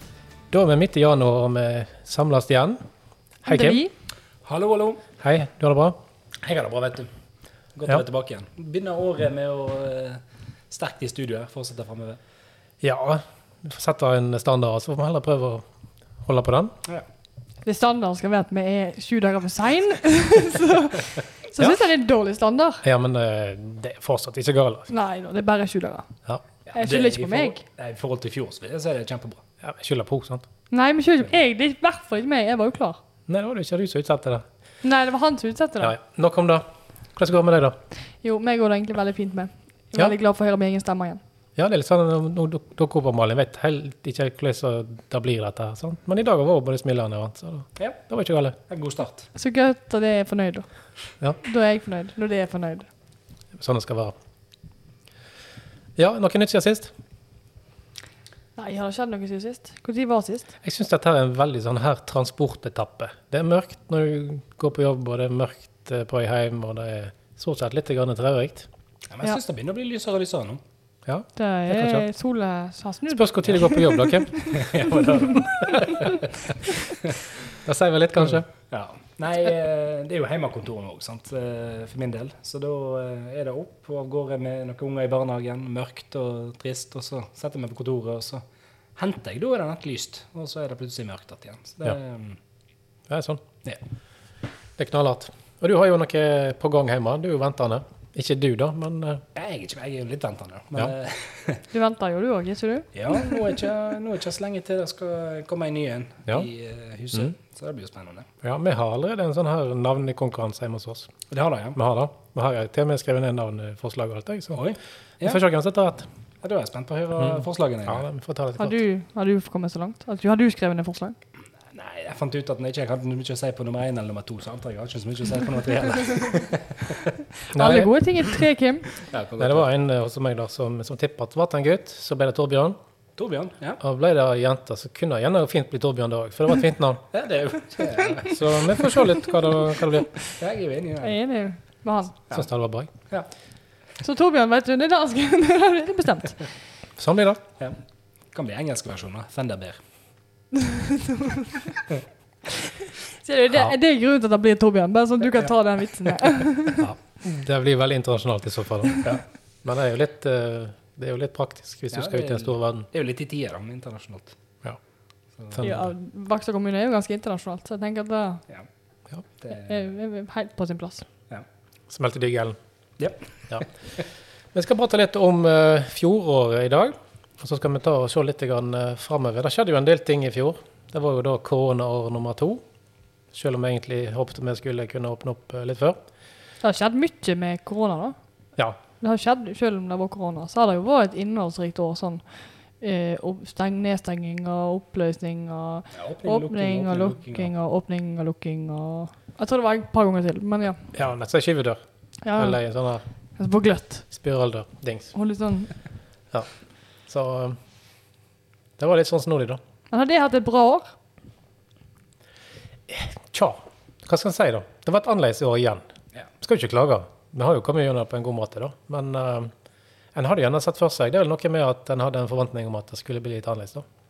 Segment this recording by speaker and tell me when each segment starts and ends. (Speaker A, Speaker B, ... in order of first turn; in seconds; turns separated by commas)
Speaker A: 0.5-2.8, Speaker A: 3.5-3.8, Speaker B: 3.5-3.9, Speaker C: 4.5-5.0, Speaker A: 5.2-6.0, Speaker C: 6.4-7.1, Speaker C: 7.8-12.2, Speaker A: 12.8-15.7, Speaker A: 16.2-16.8, Speaker B: 17.6-22.8, Speaker A: 22.8-24.9, Speaker B: 24.9-26.1, Speaker C: 26.7-29.4, Speaker B: 26.7-27.6, Speaker A: 29.6-30.5, Speaker B: 30.7-33.0, Speaker A: 33.3-34.5, Speaker B: 34.8-36.0, Speaker A: 35.8-37.8, Speaker B: 38.2-41.2, Speaker A: 41.6-48.6, Speaker C: 48.7-49.3, Speaker B: 49.4-50.7, Speaker B: 51.4-52.9, Speaker A: 53.6-54.1, Speaker A: 56.0-56.9, Speaker B: 58.6-60.5, Speaker A: 60.6-68.7, Speaker C: 69.1-70.6, Speaker A: 71.1-72.0, Speaker B: 71.4-75.3, Speaker A: 73.1-74.6, Speaker C: 74.5-76.1, Speaker A: 75.6-76.0, Speaker A: 77.7-78.5, Speaker C: 78.2-88.4, Speaker C: 89.0-92.4, Speaker A: 93.1-93.4, Speaker A: 94.8-99.2, Speaker C: 99.3-101.6, Speaker B: 101.7-103.3, Speaker C: 103.0-108.3, Speaker A: 108.4-111.1, Speaker C: 111.3-111.8, Speaker A: 111.8-114.6, Speaker C: 114.5-115.4, Speaker A: 115.2-116.1, Speaker C: 116.4-118.0, Speaker A: 117.2-118.8, Speaker B: 118.6-121.2, Speaker C: 121.7-127.1, Speaker B: 127.5-128.9, Speaker A: 127.5-127.9, Speaker C: 129.0-129.7, Speaker A: 129.4-132.8, Speaker C: 133.2-133.8, Speaker A: 133.8-137.1, Speaker C: 137.1-139.2, Speaker A: 138.2-140.1, Speaker C: 140.4-141.2, Speaker B: 141.0-142.2, Speaker A: 142.3-142.9, Speaker B: 144.0-146.4, Speaker A: 147.0-147.4, Speaker C: 148.3-149.8, Speaker B: 150.6-151.8, Speaker B: 153.2-156.8, Speaker A: 157.2-162.9, Speaker C: 161.9-164.3, Speaker A: 165.5-165.9, Speaker B: 165.6-168.4, Speaker C: 169.4-169.8, Speaker B: 169.5-171.1, Speaker A: 171.9-172.6, Speaker C: 173.0-173.7, Speaker A: 174.5-182.6, Speaker A: 183.3-186.0, Speaker B: 186.6-188.2, Speaker B: 189.0-192.2, Speaker B: 192.8-200.9, Speaker C: 195.9-197.5, Speaker A: 200.9-201.8, Speaker B: 202.2-202.6, Speaker A: 202.4-203.0, Speaker B: 203.4-204.1, Speaker A: 204.1-205.1, Speaker B: 205.1-205.7, Speaker A: 207.1-207.6, Speaker A: 208.8-209.6, Speaker B: 209.9-210.9, Speaker A: 212.9-215.8, Speaker A: 216.4-219.5, Speaker A: 220.2-223.9